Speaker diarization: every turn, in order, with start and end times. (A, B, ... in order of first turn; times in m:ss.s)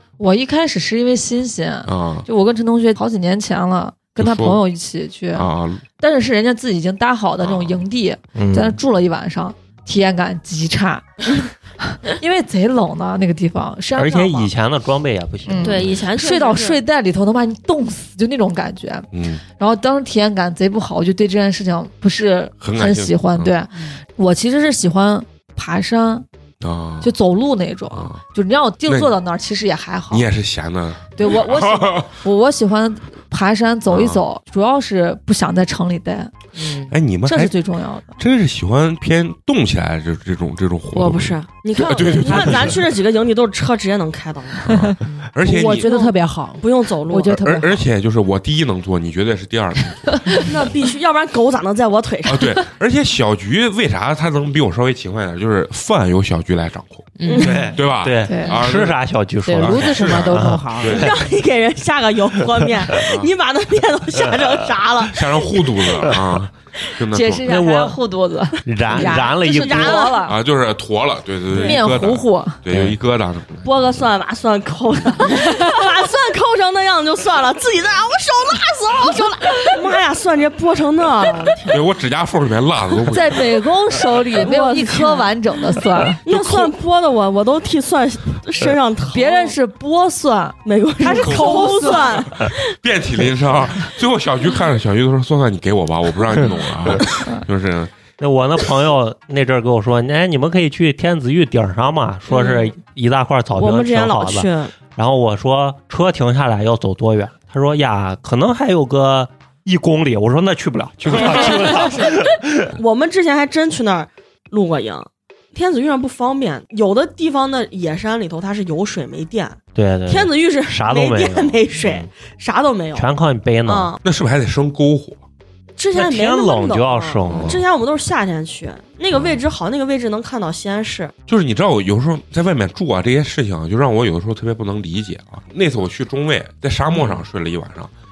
0:00.2-0:11.4 A
0:01.8-0:02.3 B
0:04.2-0:04.6 B
0:05.3-0:05.8 B
0:07.4-0:07.8 B
0:08.3-0:08.8 C
0:12.0-0:14.5 A
0:14.0-0:16.0 C
0:15.4-0:26.2 A
0:15.6-0:16.8 D
0:19.1-0:19.4 B
0:22.6-0:23.5 B
0:26.6-0:27.1 B
0:27.0-0:30.2 A
0:27.9-0:28.2 B
0:28.9-0:29.1 B
0:30.1-0:32.1 B
0:31.2-0:36.4 A
0:33.9-0:34.2 B
0:36.6-0:36.9 E
0:36.9-0:37.5 B
0:37.2-0:38.2 A
0:38.2-0:42.8 B
0:40.9-0:44.8 D
0:44.6-0:45.9 B
0:45.0-0:47.8 E
0:45.8-0:47.4 D
0:47.3-0:50.5 B
0:50.4-0:52.5 D
0:52.2-0:57.2 B
0:57.2-0:57.7 E
0:57.2-0:57.7 D
0:57.4-1:01.0 C
0:57.7-0:59.0 B
0:58.3-0:58.6 A
0:59.4-1:01.0 E
0:59.6-1:01.1 B
1:00.9-1:05.6 D
1:02.9-1:03.3 B
1:05.1-1:07.5 B
1:07.1-1:10.4 A
1:07.4-1:08.0 C
1:08.6-1:10.1 C
1:08.9-1:09.4 E
1:09.4-1:10.2 D
1:10.2-1:13.6 B
1:11.5-1:12.6 A
1:12.7-1:13.0 C
1:13.6-1:21.8 D
1:15.3-1:15.8 A
1:21.7-1:23.5 B
1:23.1-1:26.2 A
1:23.8-1:25.3 D
1:26.2-1:29.6 D
1:26.3-1:26.7 B
1:29.1-1:32.2 A
1:30.6-1:32.7 D
1:31.2-1:31.8 B
1:31.2-1:32.1 E
1:32.4-1:37.9 B
1:38.2-1:52.7 C
1:42.3-1:42.7 D
1:43.5-1:44.7 D
1:51.0-1:51.8 B
1:52.7-2:03.1 D
1:59.7-2:02.1 C
2:02.9-2:03.9 C
2:03.6-2:04.0 D
2:04.0-2:05.2 B
2:05.8-2:11.1 D
2:05.9-2:07.6 C
2:07.2-2:07.6 B
2:11.3-2:17.9 B